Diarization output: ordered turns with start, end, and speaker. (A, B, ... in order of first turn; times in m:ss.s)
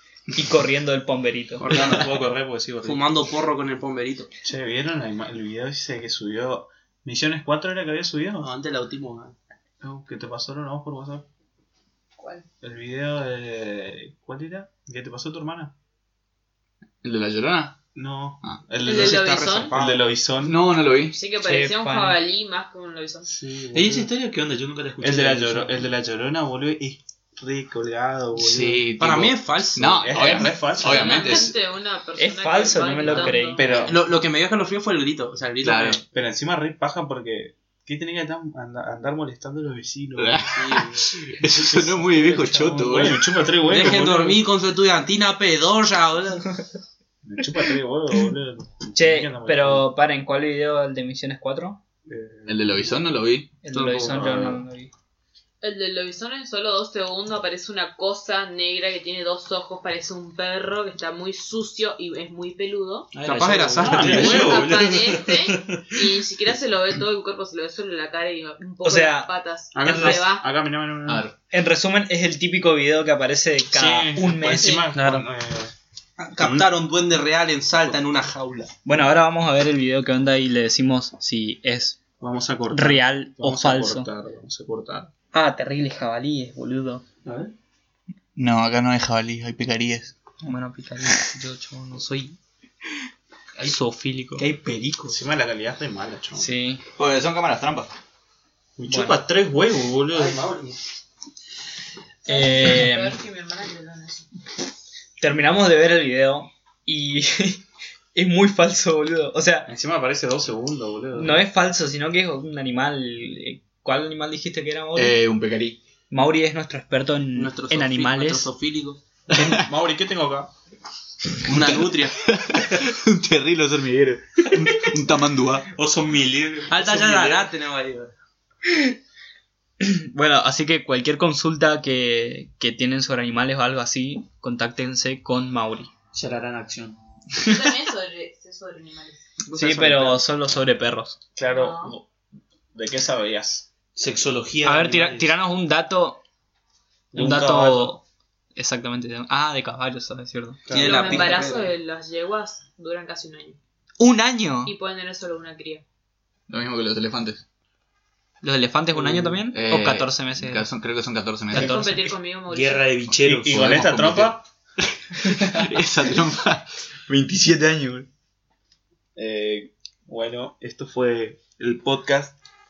0:00.3-0:01.7 A
0:01.6-0:03.1 B
0:02.8-0:04.3 C
0:04.4-0:08.5 D
0:08.4-0:09.4 C
0:09.8-0:11.3 D
0:12.2-0:12.5 E
0:12.6-0:15.7 D
0:17.0-0:17.8 F
0:18.0-0:20.6 D
0:18.8-0:19.8 E
0:18.9-0:20.1 C
0:20.4-0:21.2 F
0:21.1-0:23.3 E
0:21.4-0:22.2 A
0:23.3-0:24.1 D
0:23.7-0:25.8 B
0:25.0-0:29.3 D
0:28.4-0:31.6 F
0:29.0-0:30.4 C
0:29.8-0:31.5 D
0:30.4-0:34.0 E
0:32.2-0:33.6 A
0:33.0-0:34.0 D
0:33.8-0:36.0 C
0:35.6-0:36.0 F
0:36.1-0:40.9 D
0:40.2-0:43.3 F
0:40.5-0:41.1 C
0:41.6-0:44.4 D
0:42.2-0:42.6 A
0:43.6-0:46.6 C
0:47.2-0:49.9 D
0:49.0-0:51.8 A
0:52.1-0:52.8 D
0:52.5-0:53.5 F
0:53.6-0:54.9 A
0:53.7-0:54.1 C
0:53.8-0:54.6 D
0:55.6-1:03.1 E
1:03.1-1:06.0 B
1:03.2-1:04.6 C
1:03.8-1:04.8 D
1:04.2-1:10.5 E
1:08.8-1:09.3 A
1:09.8-1:11.3 D
1:09.8-1:10.2 A
1:11.1-1:11.3 F
1:11.5-1:15.3 A
1:13.7-1:15.7 D
1:16.2-1:18.7 C
1:16.4-1:16.7 D
1:18.8-1:22.0 A
1:22.2-1:25.1 D
1:22.7-1:24.1 A
1:25.3-1:27.0 A
1:28.4-1:30.2 F
1:30.4-1:32.4 A
1:33.6-1:34.5 A
1:34.4-1:35.2 B
1:35.1-1:36.5 D
1:36.4-1:36.8 A
1:37.0-1:37.9 F
1:38.8-1:40.8 D
1:38.9-1:39.2 A
1:42.2-1:44.3 E
1:42.3-1:43.2 A
1:45.2-1:49.7 A
1:49.7-1:51.4 D
1:51.1-1:55.2 A
1:55.0-1:55.8 F
1:56.1-1:58.5 A
1:57.4-1:59.0 C
1:59.3-2:00.5 D
1:59.3-1:59.6 F
2:01.4-2:02.2 C
2:01.5-2:05.7 F
2:05.7-2:07.5 B
2:06.7-2:08.1 C
2:08.7-2:09.0 A
2:09.8-2:15.9 A
2:16.1-2:17.0 B
2:17.4-2:19.3 E
2:17.4-2:17.7 A
2:19.4-2:20.2 C
2:19.5-2:21.2 A
2:21.4-2:22.0 D
2:21.5-2:22.0 E
2:22.7-2:23.7 D
2:24.0-2:25.3 B
2:24.6-2:26.2 A
2:27.1-2:27.9 D
2:27.1-2:28.0 A
2:28.6-2:30.6 A
2:30.7-2:31.6 D
2:30.7-2:31.7 C
2:30.8-2:33.6 E
2:34.0-2:34.7 A
2:34.6-2:35.8 E
2:36.5-2:37.4 F
2:38.4-2:40.7 A
2:39.5-2:41.9 F
2:41.5-2:43.0 E
2:41.6-2:42.1 A
2:42.5-2:43.7 B
2:43.1-2:44.4 F
2:43.2-2:44.5 D
2:45.3-2:48.1 F
2:49.2-2:52.4 D